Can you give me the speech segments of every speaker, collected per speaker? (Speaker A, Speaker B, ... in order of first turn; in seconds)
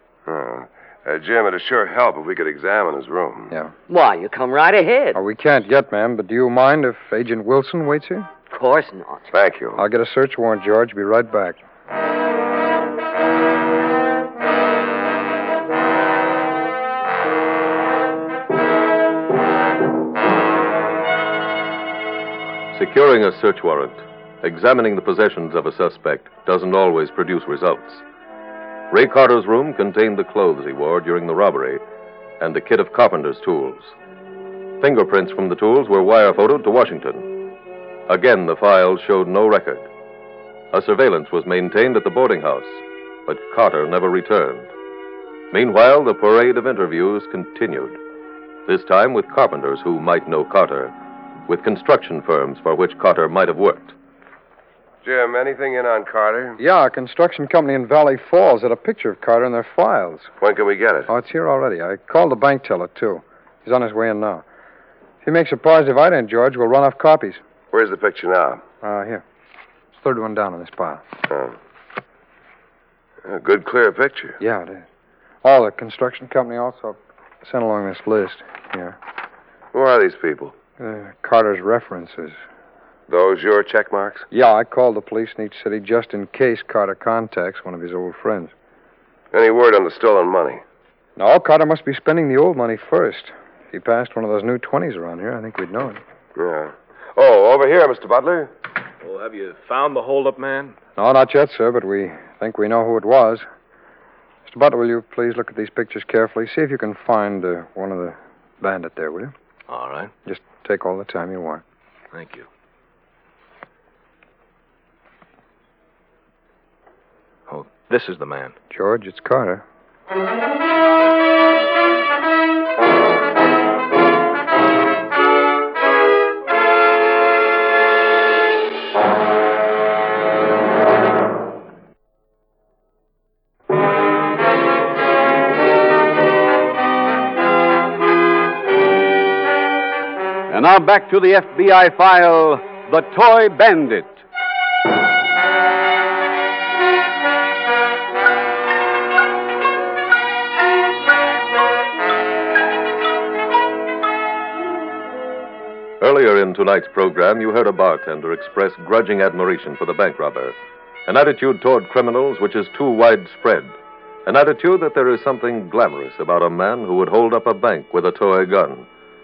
Speaker A: 0.3-3.5, 9.3-9.8, 55.0-56.6, 60.4-61.1, 67.7-68.6, 73.2-74.4, 79.7-80.5, 83.1-84.2, 89.3-90.6, 96.3-98.5
Speaker B: 3.9-5.2, 8.5-9.3
Speaker C: 5.1-8.3, 9.8-11.6, 56.6-60.3, 61.1-64.4, 65.2-67.4, 68.8-69.2, 69.9-71.0, 74.4-74.8, 75.4-79.0, 80.8-82.4, 84.3-88.5, 91.2-96.0, 101.0-103.5, 104.5-109.3, 110.2-111.6, 118.7-119.6
Speaker D: 22.7-28.0, 28.9-31.8, 32.4-33.9, 34.8-37.3, 38.1-39.9, 40.7-44.7, 45.5-48.0, 48.7-50.9, 51.5-53.9, 156.0-160.5, 161.1-163.7, 164.2-168.9
Speaker E: 99.0-100.8, 109.7-110.1, 112.1-112.5, 117.5-118.5
Speaker F: 140.5-144.2